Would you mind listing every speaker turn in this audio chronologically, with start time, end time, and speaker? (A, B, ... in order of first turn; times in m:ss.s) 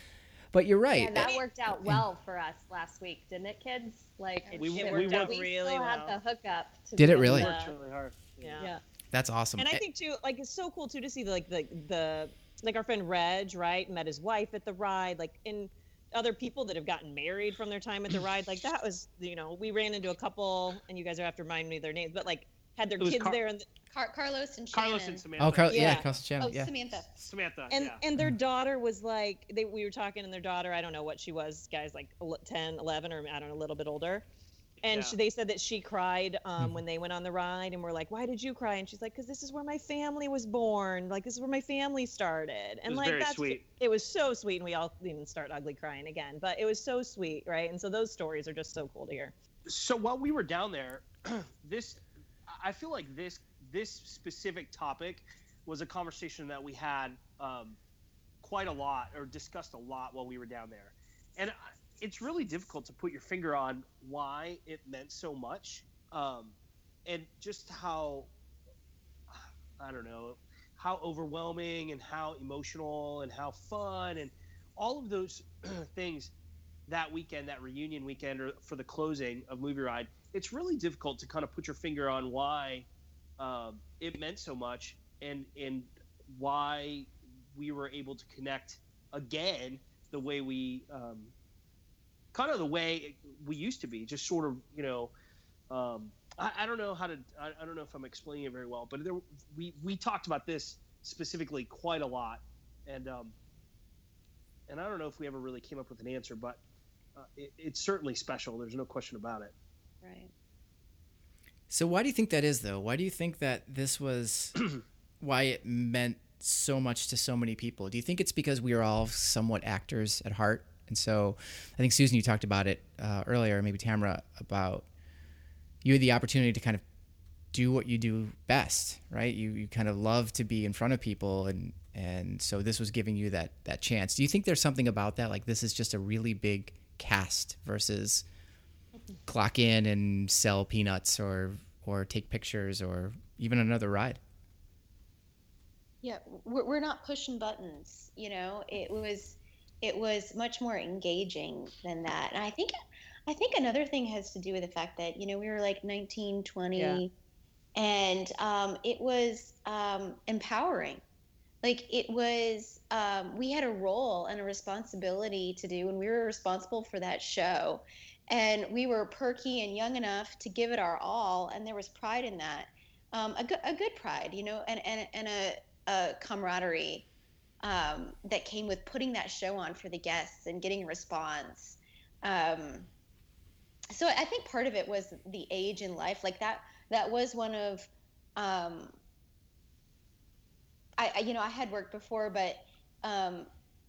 0:00.5-0:02.0 A
0:00.9-0:07.7 B
0:01.2-0:01.4 C
0:04.6-0:05.4 D
0:04.6-0:06.2 C
0:07.0-0:07.5 A
0:07.2-0:08.7 D
0:08.4-0:08.7 C
0:09.1-0:09.8 A
0:09.6-0:23.6 C
0:23.0-0:23.4 D
0:23.9-0:27.1 E
0:24.7-0:26.1 D
0:25.4-0:26.7 A
0:25.7-0:26.1 C
0:27.2-0:28.0 D
0:27.7-0:34.3 C
0:34.8-0:35.2 D
0:34.8-0:49.3 C
0:42.9-0:43.6 D
0:49.7-0:57.8 D
0:58.4-1:08.3 D
1:09.3-1:16.3 D
1:16.9-1:22.9 D
1:23.4-1:31.3 D
1:32.3-1:35.1 D
1:35.7-1:43.3 D
1:44.7-1:46.6 D
1:47.2-1:49.5 D
1:50.0-1:50.3 E
1:51.7-1:54.6 A
1:55.2-2:04.9 A
2:05.8-2:06.8 A
2:07.5-2:18.2 A
2:19.3-2:24.2 A
2:26.0-2:32.7 E
2:33.3-2:37.1 E
2:36.8-2:37.0 C
2:37.8-2:41.0 E
2:41.6-2:57.0 E
2:57.6-3:02.9 E
3:03.9-3:09.0 E
3:11.0-3:13.5 E